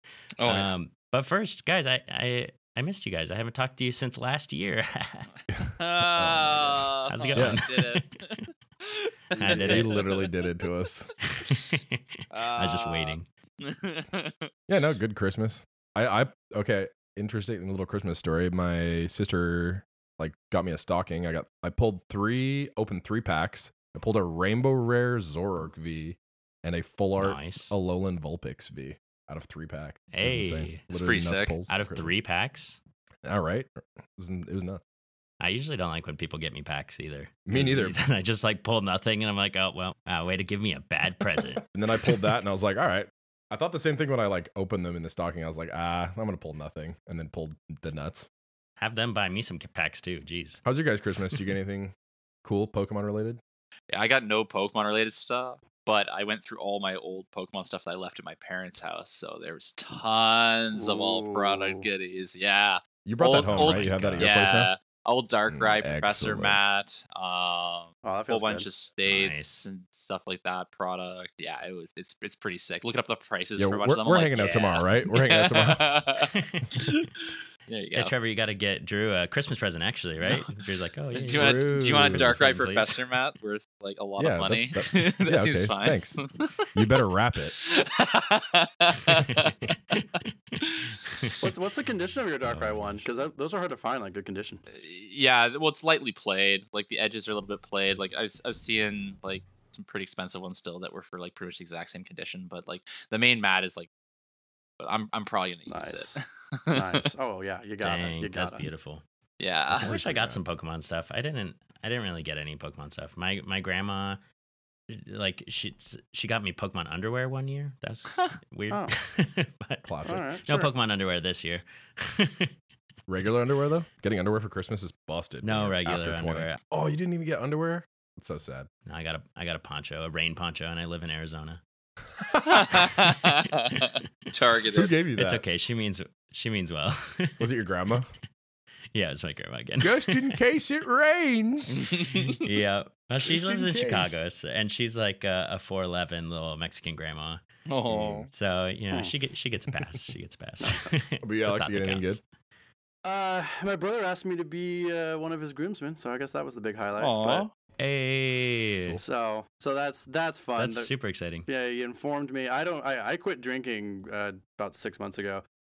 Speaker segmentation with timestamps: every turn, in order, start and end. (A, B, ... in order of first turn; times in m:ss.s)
0:00.4-0:00.7 A
0:00.4-0:05.3 B
0:05.5-0:07.6 C
0:05.8-0:10.3 A
0:07.1-0:08.4 B
0:09.4-0:10.2 B
0:09.4-0:11.1 C
0:11.2-0:13.3 B
0:12.3-0:14.5 A
0:14.7-0:32.1 C
0:27.2-0:27.7 B
0:30.1-0:30.8 B
0:30.9-0:31.5 A
0:31.7-0:32.8 B
0:33.2-0:34.8 C
0:35.4-0:41.6 B
0:37.5-0:38.0 C
0:41.7-0:48.3 C
0:48.8-0:50.6 B
0:50.6-0:51.9 C
0:52.4-0:53.4 C
0:53.9-1:17.1 A
1:00.8-1:01.8 D
1:03.0-1:04.7 C
1:03.4-1:04.4 B
1:05.5-1:06.6 C
1:08.0-1:08.7 D
1:09.1-1:09.5 B
1:13.6-1:16.0 C
1:16.3-1:16.9 B
1:17.7-1:18.1 A
1:18.0-1:23.0 B
1:20.2-1:20.5 A
1:21.2-1:26.7 A
1:21.3-1:22.4 C
1:24.2-1:26.2 C
1:26.7-1:27.6 C
1:27.6-1:30.0 A
1:29.2-1:30.0 B
1:30.5-1:31.4 B
1:30.6-1:30.9 A
1:31.4-1:34.6 D
1:32.5-1:33.0 B
1:34.7-1:43.9 A
1:44.8-1:47.1 A
1:45.7-1:46.2 D
1:46.7-1:48.7 D
1:47.8-1:49.0 B
1:49.4-1:49.9 A
1:49.7-1:54.2 B
1:49.8-1:50.4 C
1:54.9-1:59.9 B
1:58.7-1:59.0 D
1:59.8-2:00.2 C
2:00.0-2:00.7 D
2:00.4-2:02.5 B
2:03.1-2:08.7 C
2:05.4-2:06.6 B
2:08.9-2:11.6 B
2:12.5-2:14.9 A
2:12.6-2:14.0 B
2:14.7-2:15.4 C
2:15.2-2:17.5 B
2:17.4-2:18.1 C
2:18.9-2:20.4 B
2:19.8-2:22.2 C
2:21.8-2:22.4 A
2:22.4-2:27.4 B
2:23.3-2:24.1 C
2:27.7-2:28.3 A
2:27.9-2:28.3 C
2:28.3-2:32.2 B
2:30.6-2:31.1 D
2:31.2-2:32.2 C
2:33.0-2:37.5 D
2:37.0-2:37.5 A
2:37.8-2:39.0 B
2:39.0-2:40.9 D
2:40.6-2:41.5 B
2:41.5-2:45.4 D